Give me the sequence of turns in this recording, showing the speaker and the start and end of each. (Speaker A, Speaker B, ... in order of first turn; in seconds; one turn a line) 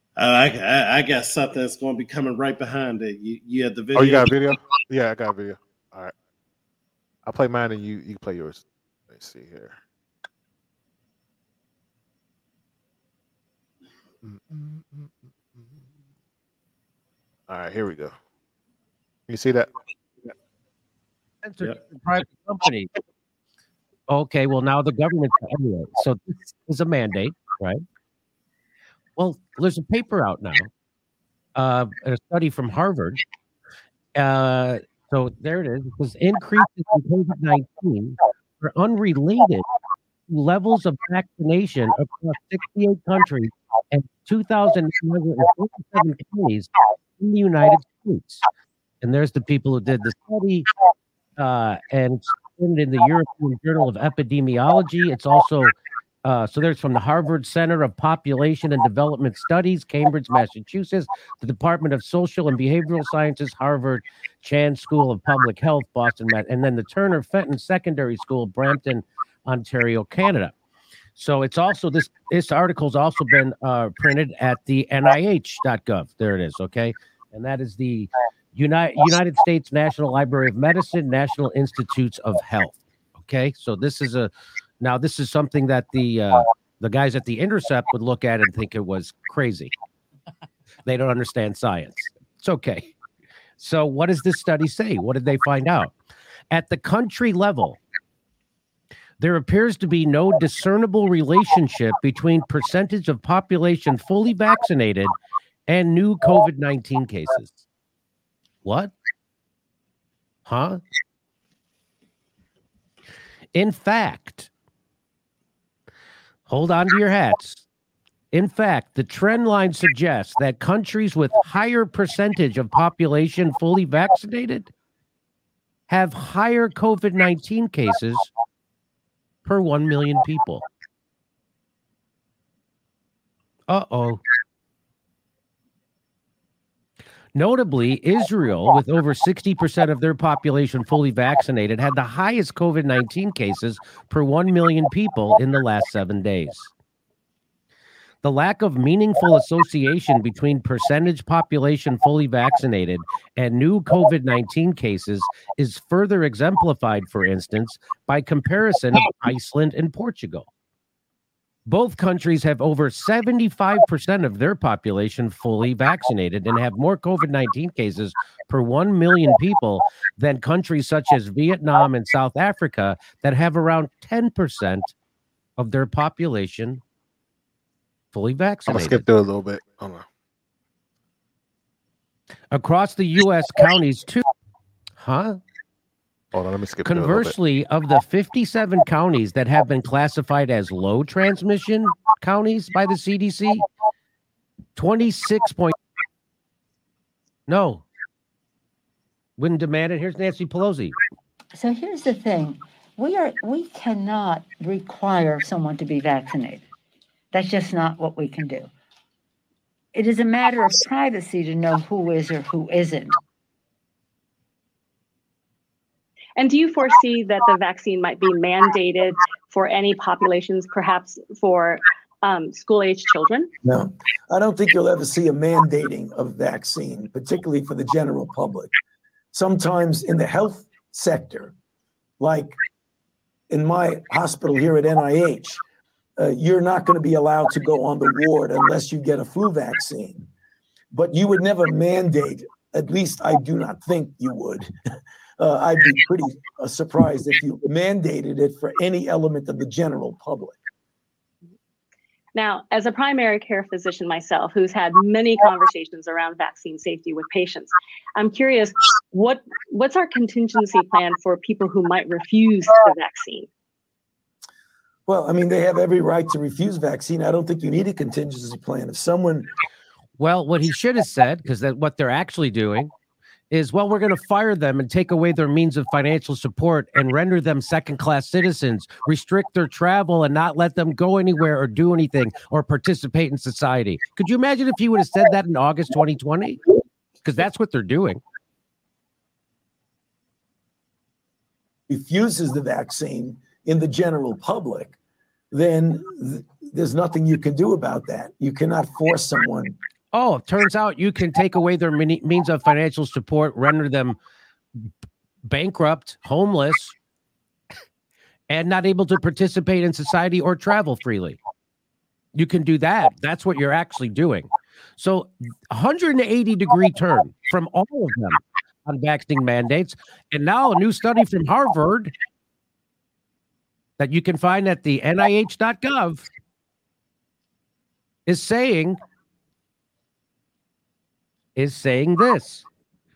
Speaker A: 0.2-4.3
Speaker B: 4.0-6.1
Speaker B: 7.2-9.8
Speaker B: 14.2-15.9
Speaker B: 17.5-18.1
Speaker B: 19.3-19.7
Speaker C: 21.4-22.9
Speaker C: 24.1-27.8
Speaker C: 29.2-30.7
Speaker C: 31.6-33.2
Speaker C: 34.1-39.7
Speaker C: 40.3-48.4
Speaker C: 49.0-50.7
Speaker C: 51.4-70.5
Speaker C: 71.2-89.7
Speaker C: 90.9-92.9
Speaker C: 93.6-95.9
Speaker C: 96.5-97.8
Speaker C: 99.2-105.1
Speaker C: 105.7-107.6
Speaker C: 108.6-108.9
Speaker C: 110.5-110.8
Speaker C: 113.5-114.5
Speaker C: 116.5-117.7
Speaker C: 118.3-124.7
Speaker C: 125.9-128.3
Speaker C: 129.4-130.6
Speaker C: 133.7-134.2
Speaker C: 137.3-146.7
Speaker C: 148.2-160.5
Speaker C: 161.7-174.9
Speaker C: 175.6-176.8
Speaker C: 178.1-179.1
Speaker B: 178.7-180.1
Speaker C: 182.5-184.2
Speaker C: 185.0-185.4
Speaker B: 186.3-187.4
Speaker C: 186.8-193.7
Speaker C: 194.8-195.8
Speaker C: 197.5-197.8
Speaker C: 199.4-201.0
Speaker D: 201.5-206.7
Speaker D: 207.3-208.7
Speaker D: 209.9-213.2
Speaker E: 216.4-223.5
Speaker F: 223.6-228.7
Speaker F: 229.3-231.5
Speaker F: 232.2-232.6
Speaker F: 233.5-235.6
Speaker F: 236.2-240.3
Speaker F: 240.9-244.7
Speaker F: 245.4-250.6
Speaker E: 252.3-263.5
Speaker F: 265.1-269.5
Speaker C: 270.2-272.9
Speaker C: 273.5-286.6
Speaker C: 287.2-288.2
Speaker F: 291.9-295.0
Speaker F: 295.5-299.8
Speaker C: 300.1-304.2
Speaker C: 305.5-306.9
Speaker C: 308.5-311.4
Speaker C: 312.4-322.1
Speaker C: 324.0-326.3
Speaker C: 328.3-329.0
Speaker C: 331.6-332.6